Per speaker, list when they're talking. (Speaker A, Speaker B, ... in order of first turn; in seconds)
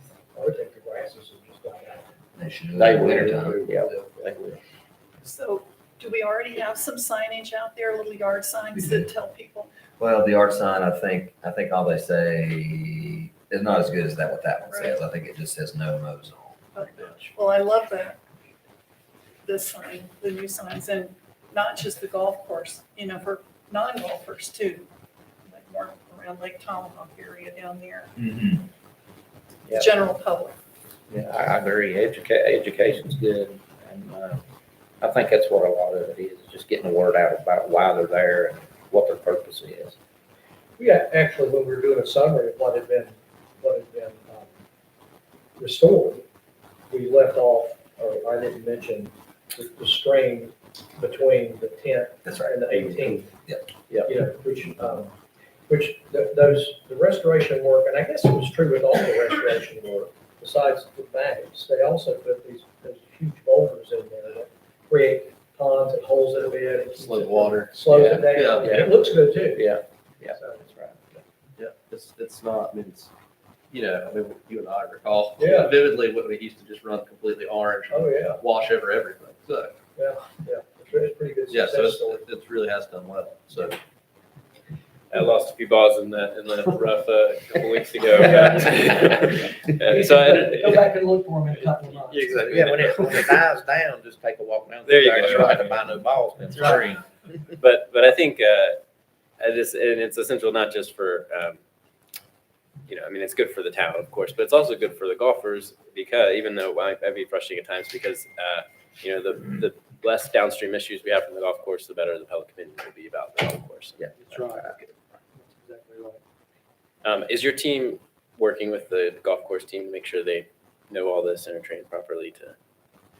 Speaker A: 0.3-2.1, 40.8-44.5, 45.6-46.2, 46.9-53.3, 54.0-55.1, 55.7-69.7, 70.3-70.6, 75.4-75.7, 77.9-78.4, 80.0-82.2, 88.1-93.3, 114.3-114.7, 115.3-116.2
Speaker B: 2.4-3.7, 8.7-9.1, 10.0-16.8, 28.2-28.6, 52.2-52.8
Speaker C: 2.8-4.6, 31.1-34.4, 35.0-40.0, 67.9-71.2, 92.4-97.0
Speaker D: 3.3-3.7, 66.9-68.9, 71.6-73.1, 73.7-79.7, 81.5-83.8
Speaker E: 5.2-9.7, 16.7-18.2, 19.4-24.9, 25.5-28.1, 29.7-30.6
Speaker F: 85.1-90.9, 91.5-93.2, 94.8-95.8, 97.6-98.8, 99.4-101.6, 102.9-114.9, 117.0-122.5